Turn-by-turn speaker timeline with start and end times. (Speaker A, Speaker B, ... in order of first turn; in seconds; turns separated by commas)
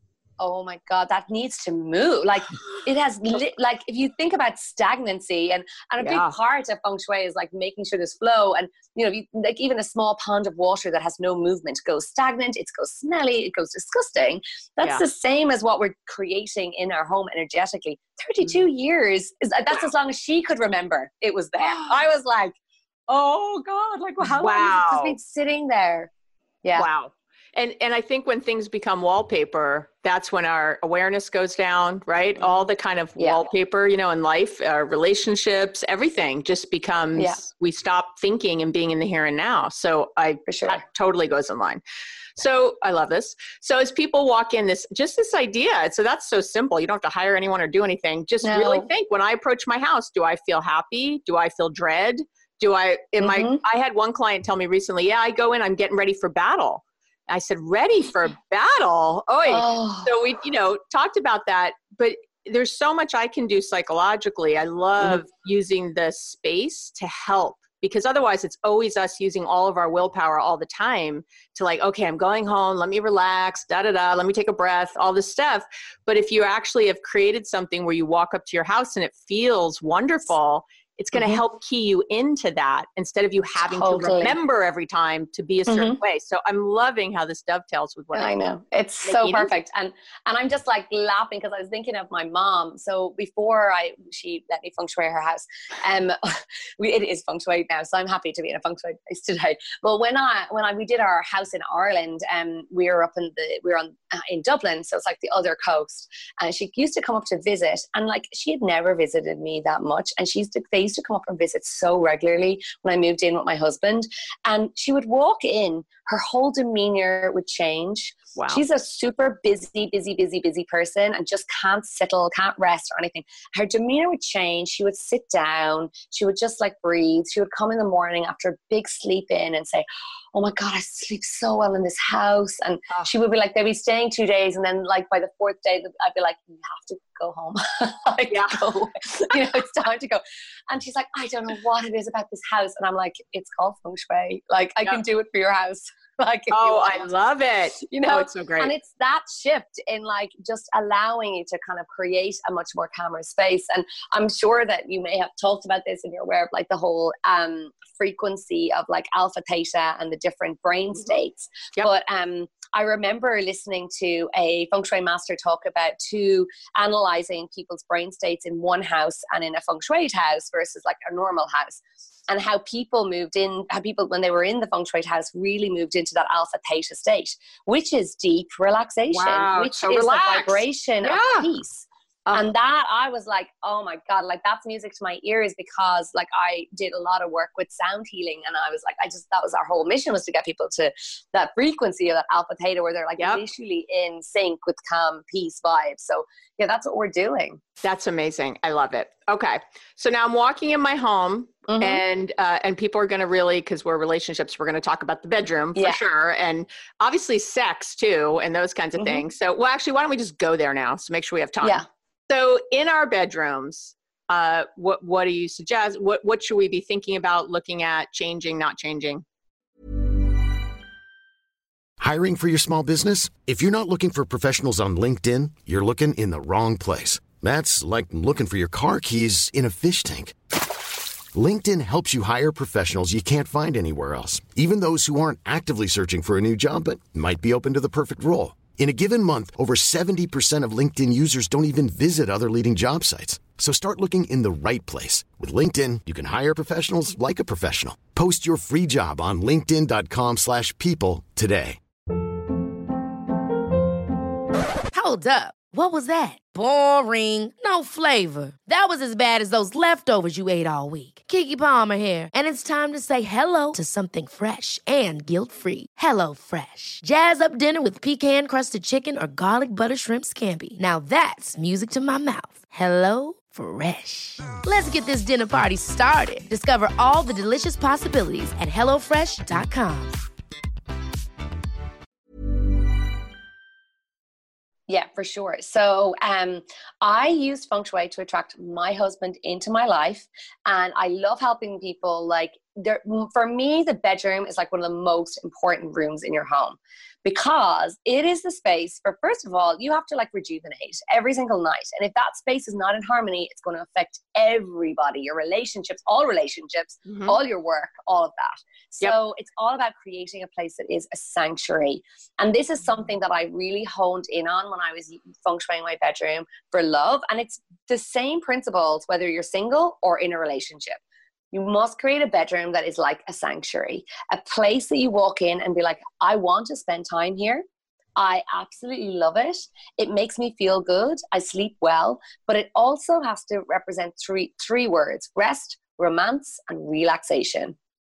Speaker A: 0.4-22.6, Speaker B: 6.0-6.3, Speaker B: 21.6-22.0, Speaker A: 23.1-26.1, Speaker B: 24.3-25.1, Speaker B: 26.8-41.8, Speaker A: 33.2-33.4, Speaker A: 40.5-40.8, Speaker B: 42.4-88.3, Speaker A: 48.4-48.9, Speaker A: 53.2-53.6, Speaker A: 59.5-60.1, Speaker A: 81.1-81.4, Speaker A: 83.6-84.4, Speaker A: 85.7-86.0, Speaker A: 88.1-147.1, Speaker B: 89.0-89.5, Speaker B: 118.4-118.6, Speaker B: 138.3-138.7, Speaker B: 146.5-148.7, Speaker A: 147.8-197.6, Speaker B: 179.1-181.5, Speaker B: 193.2-193.4, Speaker B: 197.8-219.2, Speaker A: 201.7-202.0, Speaker A: 209.0-209.2, Speaker C: 222.0-230.4, Speaker C: 231.3-251.8, Speaker D: 254.9-280.2, Speaker A: 284.9-321.0, Speaker B: 307.1-307.4, Speaker A: 321.5-327.6, Speaker A: 328.1-337.8